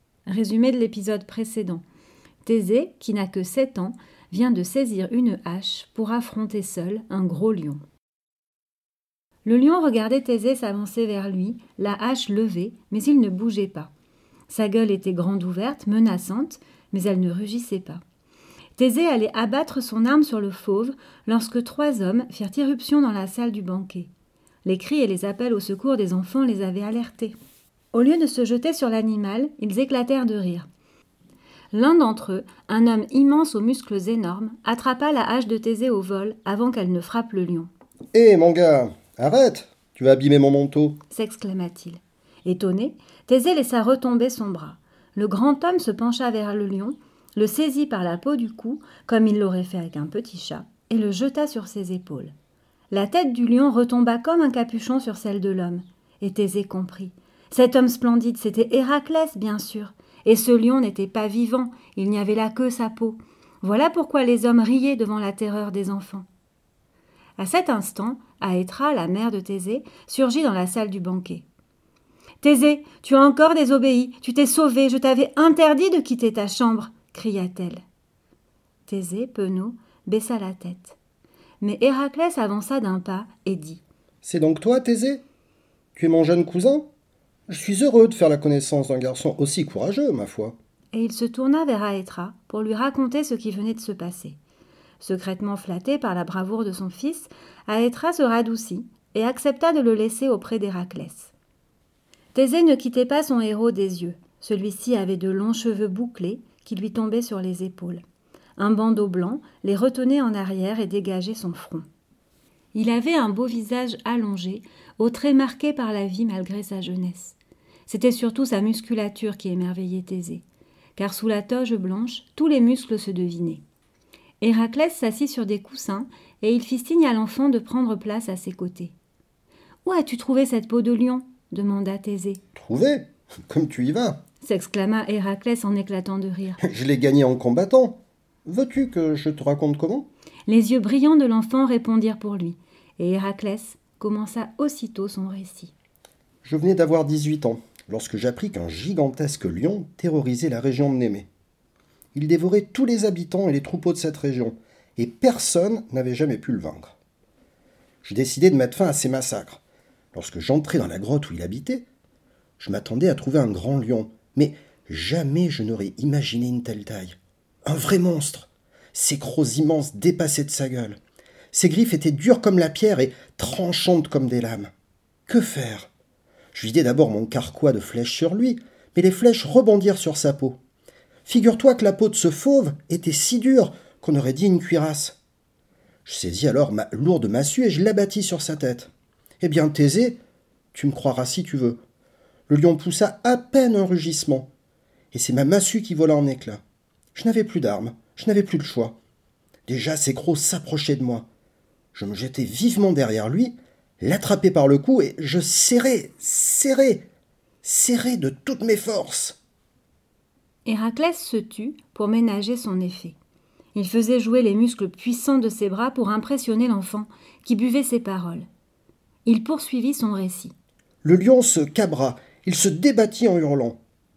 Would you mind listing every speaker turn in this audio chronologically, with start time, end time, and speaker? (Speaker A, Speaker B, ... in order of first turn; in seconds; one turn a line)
Speaker A: 0.2-1.8
Speaker A: 2.4-7.8
Speaker A: 9.4-13.9
Speaker A: 14.5-18.0
Speaker A: 18.8-24.1
Speaker A: 24.6-27.4
Speaker A: 27.9-30.7
Speaker A: 31.7-37.7
Speaker B: 38.1-41.0
Speaker A: 41.1-52.3
Speaker A: 52.9-66.2
Speaker A: 67.4-71.5
Speaker A: 72.4-77.8
Speaker A: 78.9-81.0
Speaker A: 81.6-83.8
Speaker B: 84.2-85.2
Speaker B: 86.0-86.9
Speaker B: 87.5-90.5
Speaker A: 90.9-94.4
Speaker A: 95.0-101.3
Speaker A: 102.3-108.0
Speaker A: 108.6-111.8
Speaker A: 112.7-117.3
Speaker A: 117.9-120.4
Speaker A: 121.0-123.6
Speaker A: 124.4-128.9
Speaker A: 129.8-132.4
Speaker B: 132.5-134.2
Speaker A: 134.4-136.6
Speaker B: 136.6-140.1
Speaker A: 140.5-145.7
Speaker B: 146.4-151.3
Speaker B: 152.1-156.9
Speaker B: 158.0-159.6
Speaker B: 160.1-161.8
Speaker B: 162.6-171.0
Speaker B: 171.5-174.7
Speaker B: 175.3-175.9
Speaker B: 176.5-180.6
Speaker B: 181.2-185.2
Speaker B: 186.0-190.2
Speaker B: 190.7-191.8
Speaker B: 192.5-194.5
Speaker B: 195.1-196.6
Speaker B: 197.1-199.0
Speaker B: 199.7-201.3
Speaker B: 201.9-207.1
Speaker B: 207.6-209.4
Speaker A: 210.7-213.2
Speaker A: 213.7-218.5
Speaker A: 219.2-220.5
Speaker B: 221.0-223.8